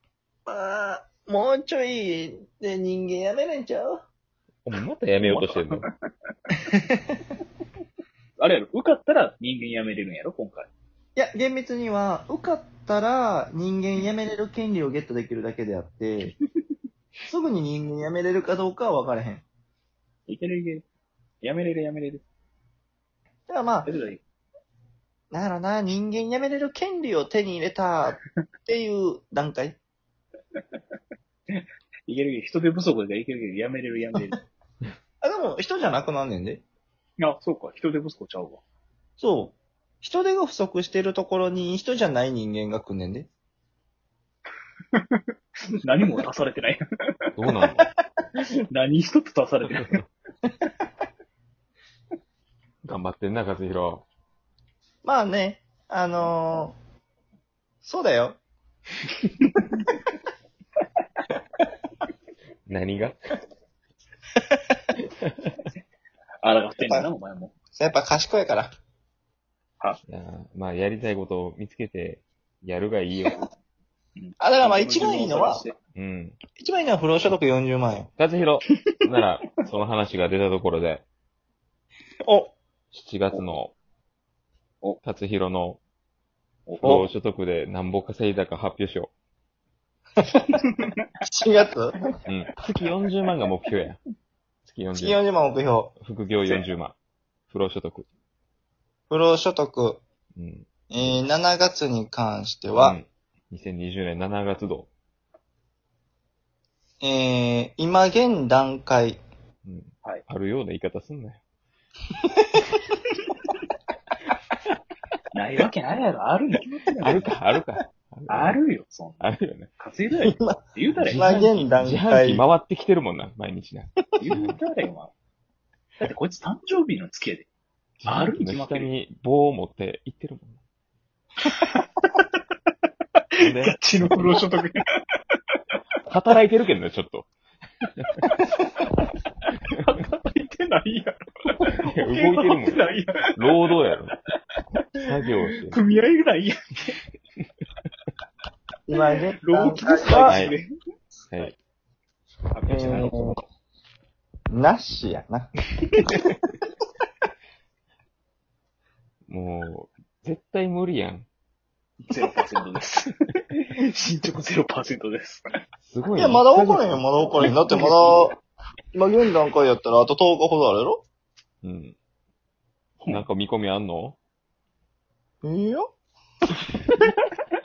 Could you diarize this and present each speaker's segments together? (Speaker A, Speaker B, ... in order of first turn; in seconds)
Speaker A: 0.5-4.0, 11.2-16.3, 17.3-19.4, 23.5-23.9, 25.3-29.8, 35.2-36.6, 39.2-43.3, 55.0-56.8, 57.8-58.4, 67.7-68.7, 74.4-75.6, 76.6-78.1, 82.2-82.5, 86.8-87.1, 91.2-92.0, 94.9-95.9, 99.1-100.0, 100.9-103.0, 107.0-109.2, 120.2-120.6, 121.2-122.4, 148.9-150.4, 152.7-153.4, 154.5-155.5, 166.1-168.4, 168.9-171.0, 175.4-175.9
Speaker B: 4.6-5.9, 47.4-47.9, 52.9-54.0, 62.7-63.1, 70.1-73.5, 76.0-76.4, 78.2-81.0, 82.9-83.7, 85.0-85.8, 86.8-89.1, 92.3-94.0, 94.6-95.2, 96.0-97.0, 97.5-98.1, 100.3-100.7, 102.7-104.9, 109.6-111.4, 117.0-118.6, 119.2-119.7, 121.0-124.6, 128.0-130.6, 133.4-134.4, 136.1-137.3, 141.9-142.8, 143.4-144.1, 145.0-145.8, 150.2-150.6, 152.8-153.3, 159.3-161.3, 165.8-167.0, 171.6-172.0, 173.1-174.2
Speaker C: 5.2-5.9, 8.4-10.7, 20.3-20.9, 21.4-22.2, 23.9-24.2, 31.6-34.4, 37.2-38.6, 45.8-46.8, 48.7-50.0, 66.4-67.5, 74.2-75.8, 86.7-87.0, 90.5-90.9, 115.3-117.3, 118.3-121.6, 124.2-125.1, 126.0-127.5, 128.0-128.9, 131.4-131.8, 133.6-134.8, 139.7-143.2, 145.7-146.9, 149.4-150.7, 152.5-153.1, 162.1-165.4, 167.4-168.3